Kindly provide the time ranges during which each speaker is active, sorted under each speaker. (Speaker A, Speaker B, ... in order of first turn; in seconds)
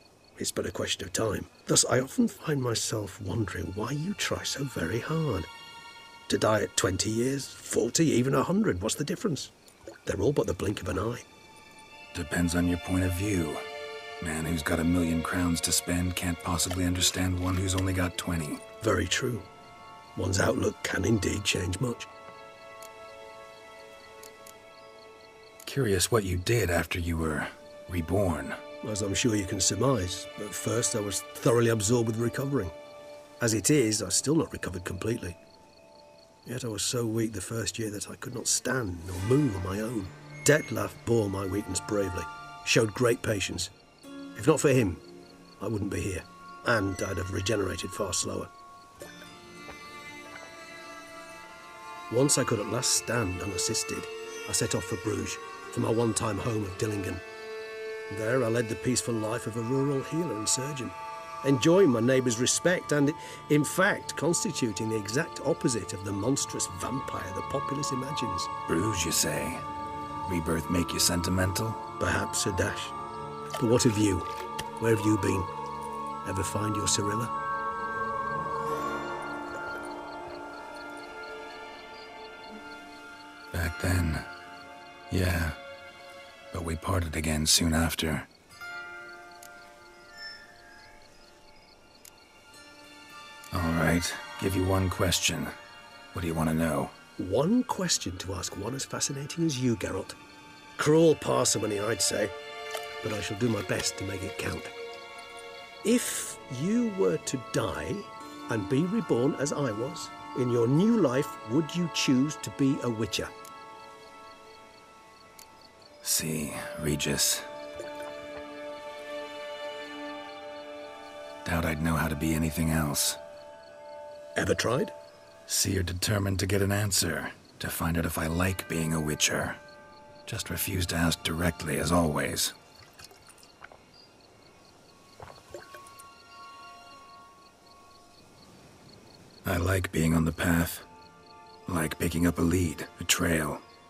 Speaker A: 0.4-5.5, 6.3-9.5, 10.1-11.2, 18.8-19.5, 20.2-22.1, 28.8-32.7, 33.4-35.4, 36.5-43.7, 44.4-45.0, 45.6-48.5, 52.1-57.2, 58.1-68.5, 72.0-72.9, 73.6-74.3, 74.8-75.5, 76.2-77.3, 97.2-100.2, 100.8-102.3, 103.0-104.7, 105.8-113.3, 124.4-124.9
Speaker B: 12.1-13.6, 14.2-18.6, 25.7-28.6, 68.7-69.6, 70.2-71.8, 83.5-84.3, 85.1-85.6, 86.5-88.3, 93.5-95.5, 96.1-96.9, 116.0-117.5, 121.4-123.2, 125.5-129.6, 130.2-132.5, 139.4-140.9, 141.7-143.6